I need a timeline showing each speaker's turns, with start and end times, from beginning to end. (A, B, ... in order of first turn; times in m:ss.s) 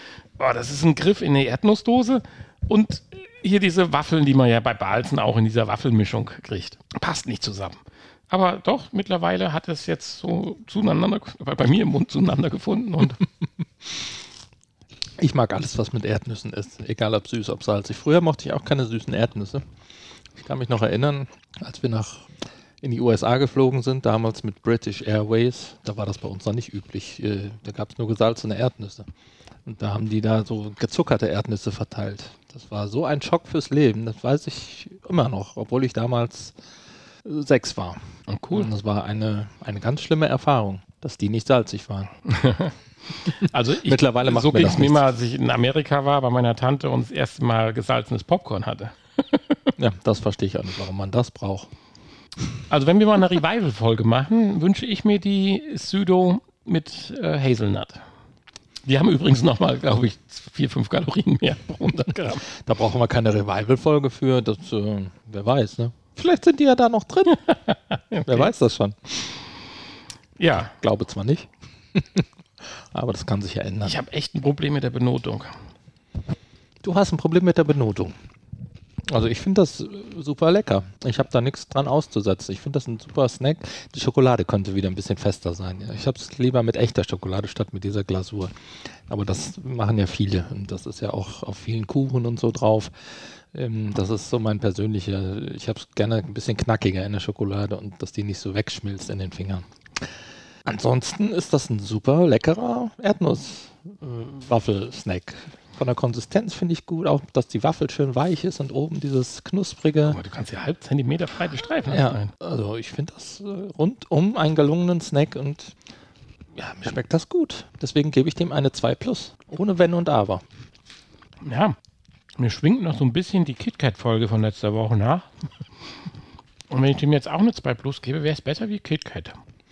0:00.4-0:13.2 A
0:15.2-0:19.6 B
0:20.4-0:22.3 B
0:22.8-0:29.1 B
0:29.7-0:36.6 B
0:37.2-0:38.0 B
0:38.3-0:38.7 A
0:38.5-0:42.1 B
0:42.3-0:42.7 A
0:43.3-0:49.7 A
0:43.6-0:45.1 B
0:49.8-0:51.7 B
0:52.7-0:58.0 A
0:58.9-1:02.5 A
1:02.6-1:07.4 B
1:07.4-1:08.5 A
1:08.3-1:09.2 B
1:10.4-1:10.7 A
1:10.5-1:12.2 B
1:12.9-1:14.0 B
1:13.8-1:15.5 A
1:16.8-1:18.1 B
1:19.1-1:28.5 B
1:29.1-1:32.9 B
1:33.5-1:39.6 B
1:40.7-1:50.2 B
1:50.0-1:52.3 A
1:51.9-1:55.7 B
1:56.6-2:00.4 B
2:01.4-2:01.8 A
2:02.4-2:05.2 A
2:06.7-2:09.4 A